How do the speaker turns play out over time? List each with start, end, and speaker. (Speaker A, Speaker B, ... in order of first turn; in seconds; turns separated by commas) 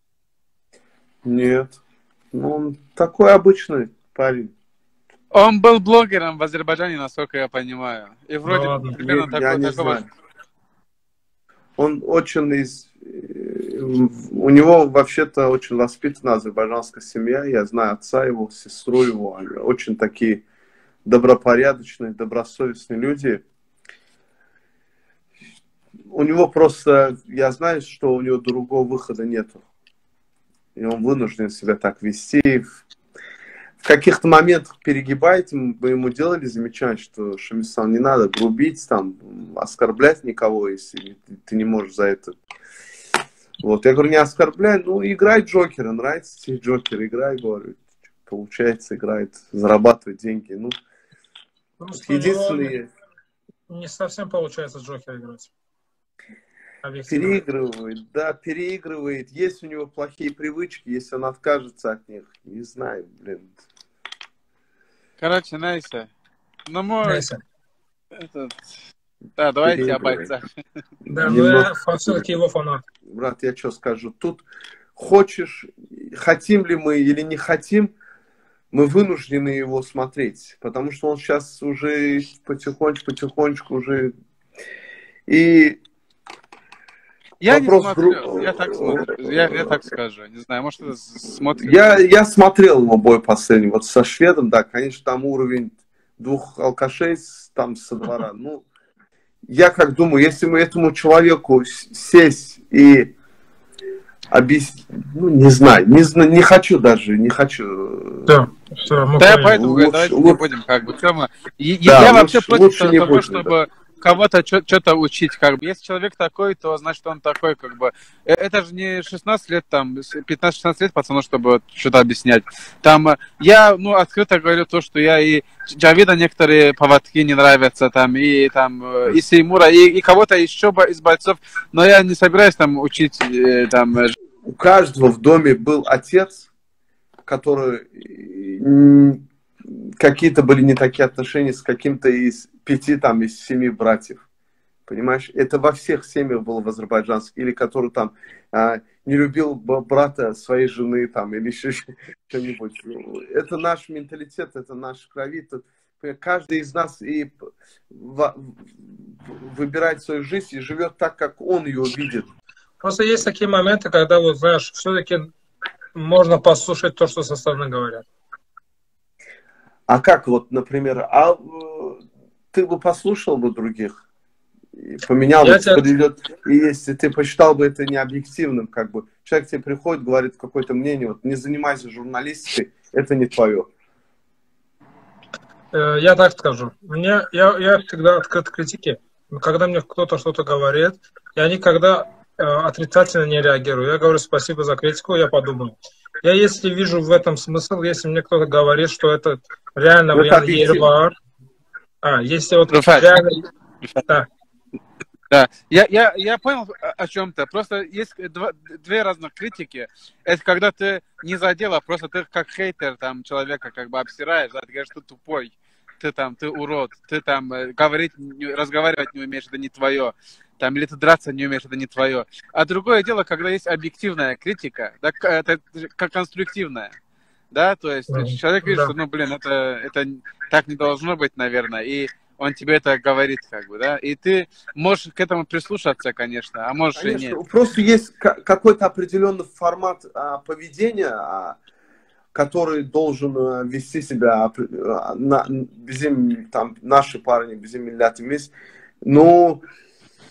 Speaker A: 1.2-1.8, Speaker A: 2.3-4.5, Speaker B: 5.3-10.0, Speaker C: 8.4-9.0, Speaker A: 9.0-10.1, Speaker A: 11.8-20.4, Speaker A: 21.1-23.4, Speaker A: 26.1-29.6, Speaker A: 30.8-32.8, Speaker A: 33.8-42.4, Speaker A: 43.6-50.8, Speaker C: 51.8-52.8, Speaker A: 51.9-52.9, Speaker C: 53.7-55.5, Speaker C: 56.8-57.4, Speaker A: 57.1-63.6, Speaker B: 65.2-66.1, Speaker B: 66.7-67.3, Speaker C: 67.0-67.4, Speaker B: 68.2-68.6, Speaker B: 69.4-70.5, Speaker A: 69.6-70.3, Speaker A: 71.1-72.2, Speaker C: 71.1-72.8, Speaker A: 73.1-74.4, Speaker A: 75.0-77.9, Speaker A: 78.7-84.1, Speaker A: 85.3-85.8, Speaker B: 87.4-92.1, Speaker A: 87.5-89.8, Speaker A: 91.6-98.7, Speaker A: 99.5-103.1, Speaker A: 104.3-108.3, Speaker C: 108.3-109.5, Speaker B: 109.2-134.2, Speaker A: 109.5-110.4, Speaker A: 111.9-113.5, Speaker A: 134.5-136.5, Speaker A: 137.3-144.2, Speaker A: 144.9-157.4, Speaker A: 157.9-162.3, Speaker C: 162.8-165.3, Speaker C: 165.9-168.0, Speaker A: 169.9-172.0, Speaker A: 172.5-174.0, Speaker A: 174.8-183.7, Speaker C: 175.4-175.8, Speaker C: 185.7-201.1, Speaker A: 200.1-200.9, Speaker C: 202.0-203.3, Speaker B: 202.7-203.1, Speaker B: 205.3-226.9, Speaker B: 227.5-237.4, Speaker C: 228.1-228.9, Speaker A: 237.0-241.6, Speaker A: 242.3-248.5, Speaker A: 249.1-249.6